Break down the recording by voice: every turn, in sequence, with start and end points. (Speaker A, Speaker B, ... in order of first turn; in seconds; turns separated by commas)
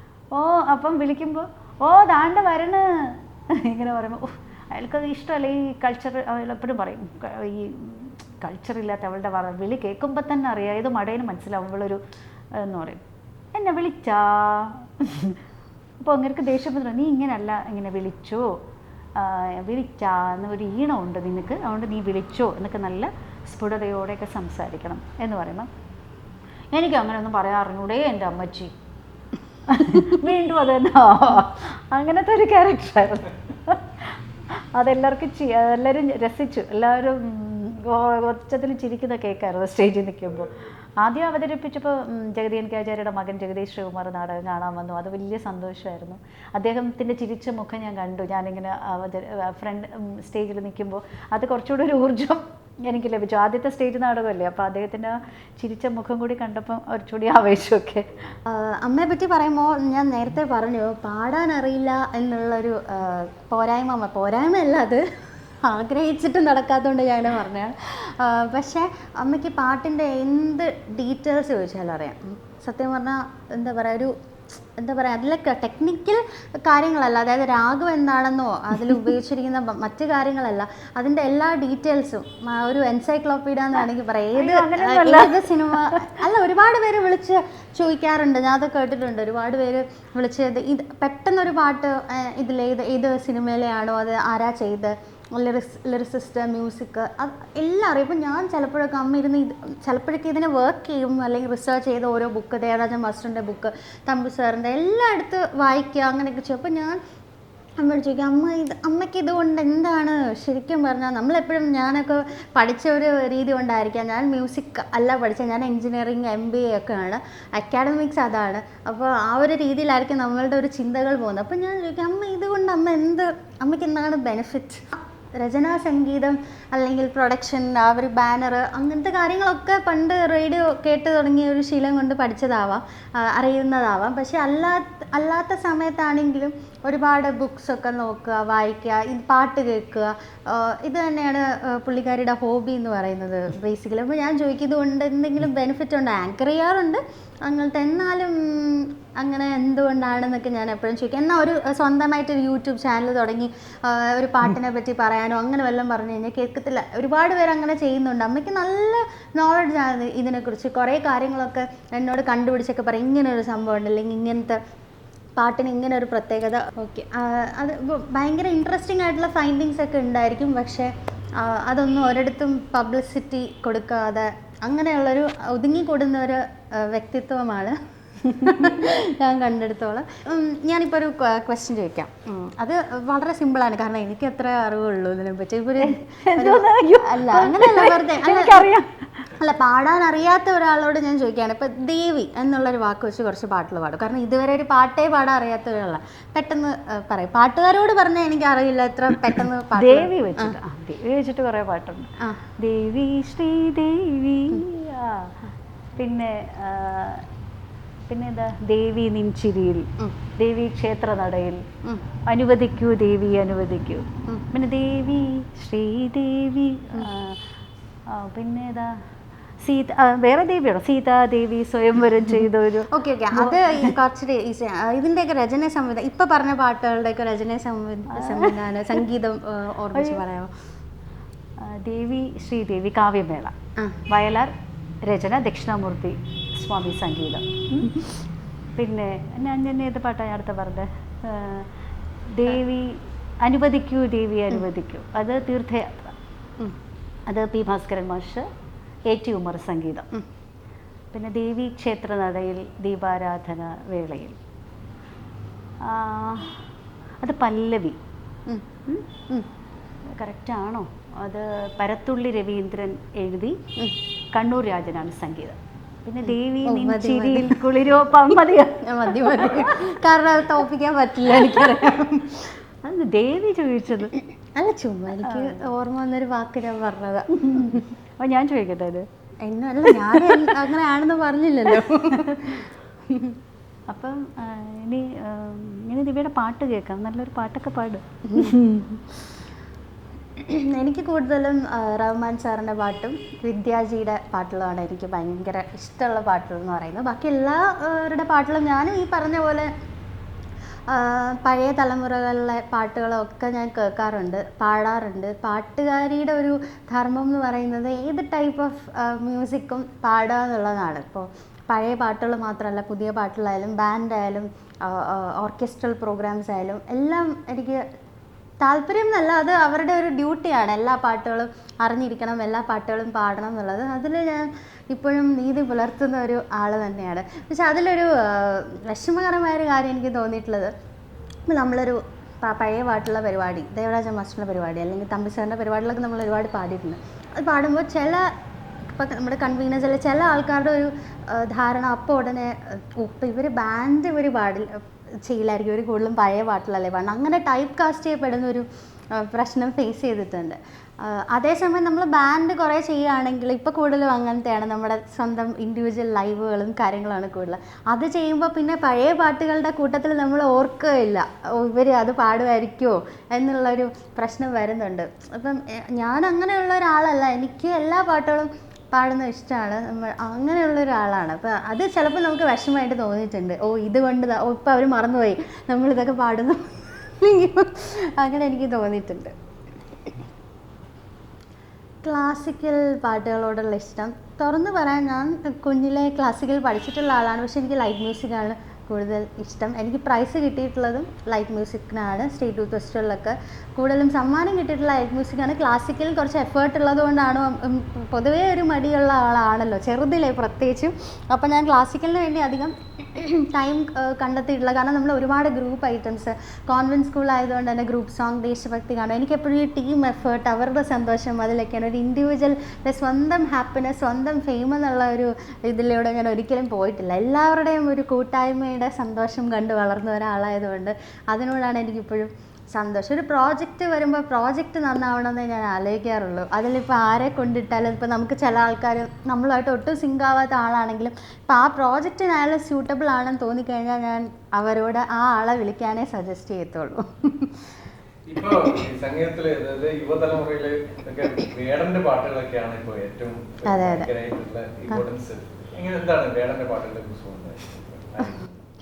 Speaker A: 0.3-12.0, Speaker A: 12.6-13.0, Speaker A: 13.5-15.4, Speaker A: 16.0-18.5, Speaker A: 19.2-25.7, Speaker A: 26.7-28.7, Speaker A: 29.7-58.2, Speaker B: 58.4-65.0, Speaker B: 65.6-74.2, Speaker B: 74.7-107.0, Speaker A: 84.3-86.1, Speaker B: 107.8-164.6, Speaker B: 165.4-188.7, Speaker A: 185.8-189.3, Speaker B: 189.3-200.6, Speaker A: 199.8-205.3, Speaker B: 202.2-202.4, Speaker A: 206.0-207.2, Speaker A: 208.1-209.9, Speaker A: 210.4-211.6, Speaker A: 212.3-217.4, Speaker A: 218.1-218.9, Speaker A: 219.6-223.9, Speaker B: 222.9-230.5, Speaker A: 228.1-229.0, Speaker A: 229.9-230.2, Speaker A: 231.6-233.5, Speaker A: 234.1-234.5, Speaker A: 235.0-237.9, Speaker A: 238.8-241.7, Speaker A: 242.3-246.1, Speaker A: 247.3-248.4, Speaker A: 249.1-250.1, Speaker A: 251.1-254.4, Speaker A: 255.8-256.6, Speaker A: 257.2-258.0, Speaker A: 260.1-263.6, Speaker A: 264.3-269.9, Speaker B: 266.2-267.6, Speaker B: 268.8-272.5, Speaker A: 272.8-274.1, Speaker B: 274.6-277.9, Speaker A: 275.2-275.7, Speaker A: 277.3-279.1, Speaker B: 279.4-283.4, Speaker A: 279.9-280.6, Speaker A: 281.8-282.6, Speaker A: 283.9-289.0, Speaker B: 288.2-288.6, Speaker B: 290.4-299.7, Speaker B: 300.9-317.8, Speaker B: 318.6-330.7, Speaker B: 331.5-338.3, Speaker B: 338.9-344.7, Speaker B: 345.2-379.3, Speaker B: 382.0-437.7, Speaker C: 438.3-448.5, Speaker B: 443.6-444.1